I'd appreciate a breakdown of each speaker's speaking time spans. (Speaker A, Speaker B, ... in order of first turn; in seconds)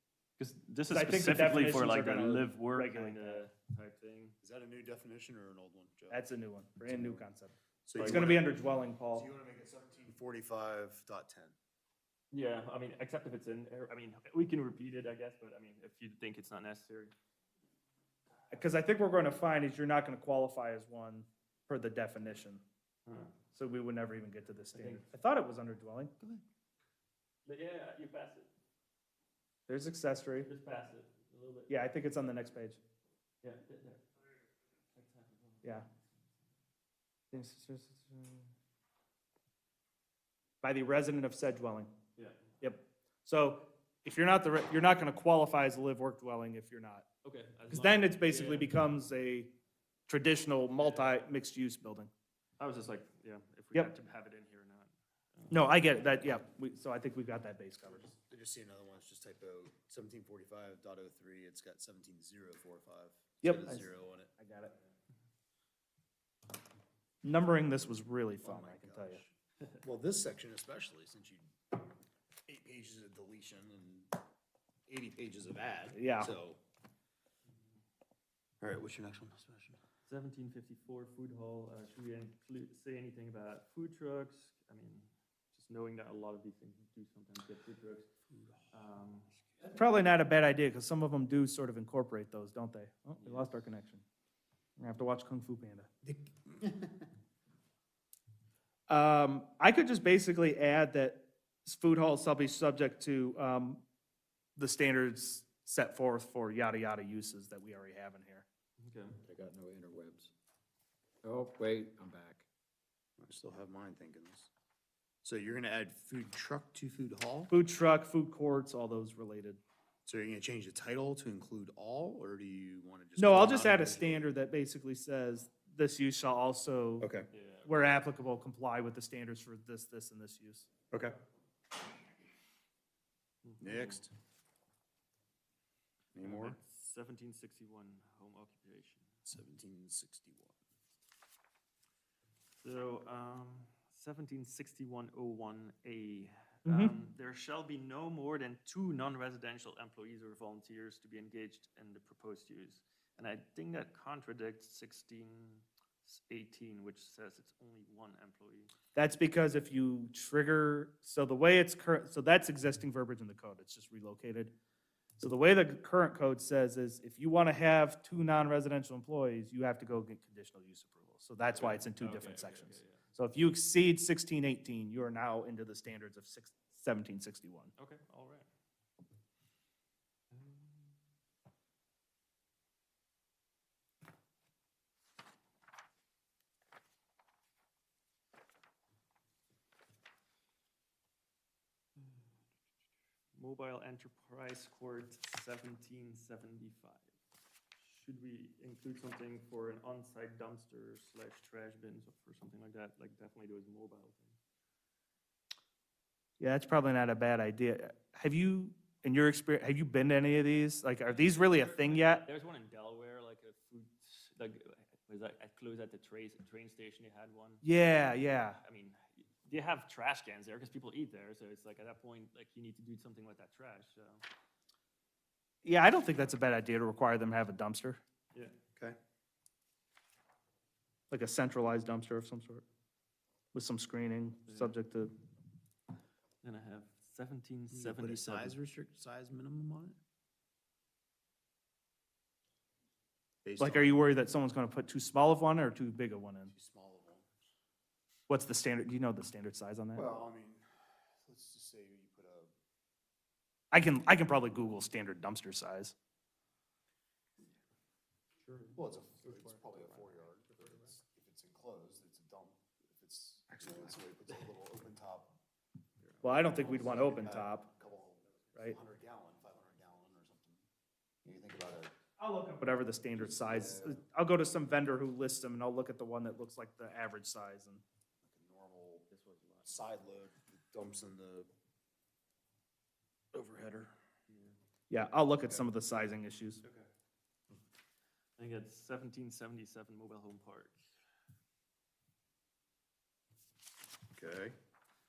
Speaker A: 0.4-4.3, 8.0-8.3, 12.3-17.1, 23.1-23.3, 24.7-25.1, 27.4-28.5, 30.4-31.7, 33.4-34.0, 34.9-36.0, 47.2-48.7, 50.8-51.1, 52.6-55.8, 77.5-77.8, 80.1-88.1, 88.7-89.3, 93.2-93.7, 108.8-109.2, 127.3-128.0, 133.4-134.0, 136.2-139.1, 142.6-158.7, 171.5-173.0, 177.8-178.5, 180.3-180.9, 193.3-197.1, 197.8-204.4, 211.1-217.6, 218.6-224.2, 234.5-234.8, 236.4-238.6, 258.4-260.9, 266.0-266.4, 279.1-279.9, 284.3-284.6, 288.4-290.9
Speaker B: 0.9-3.4, 6.1-9.3, 18.5-22.6, 23.5-26.1, 29.7-30.5, 31.7-32.8, 37.3-38.5, 40.6-41.9, 42.6-47.1, 47.7-49.5, 50.1-52.1, 55.5-58.1, 63.4-64.7, 67.2-69.2, 75.9-76.3, 89.7-94.0, 94.8-95.9, 98.9-103.8, 104.6-108.5, 117.5-119.6, 123.2-127.1, 127.7-130.7, 146.7-146.9, 158.9-164.5, 165.2-177.7, 206.4-212.2, 217.6-218.6, 225.6-228.0, 231.1-232.7, 233.5-235.1, 243.6-246.5, 248.3-250.1, 253.7-255.9, 266.2-267.7, 272.2-277.8, 284.9-286.6
Speaker C: 4.4-6.2, 6.9-7.2, 7.9-8.6, 9.1-11.6, 58.1-64.3, 68.4-71.5, 72.5-74.1, 74.9-76.6, 78.6-79.8, 88.3-88.6, 96.0-97.1, 113.2-114.5, 115.2-117.5, 120.1-124.3, 127.0-127.3, 130.9-131.2, 133.6-134.1, 136.2-136.6, 139.3-140.6, 237.7-240.0, 243.4-243.9, 246.5-247.3, 249.9-252.5, 258.8-265.3, 266.4-270.6, 271.2-271.9, 273.2-274.0, 278.2-279.1, 279.6-281.5, 283.3-283.9, 294.1-294.6
Speaker D: 109.2-110.3, 111.2-112.5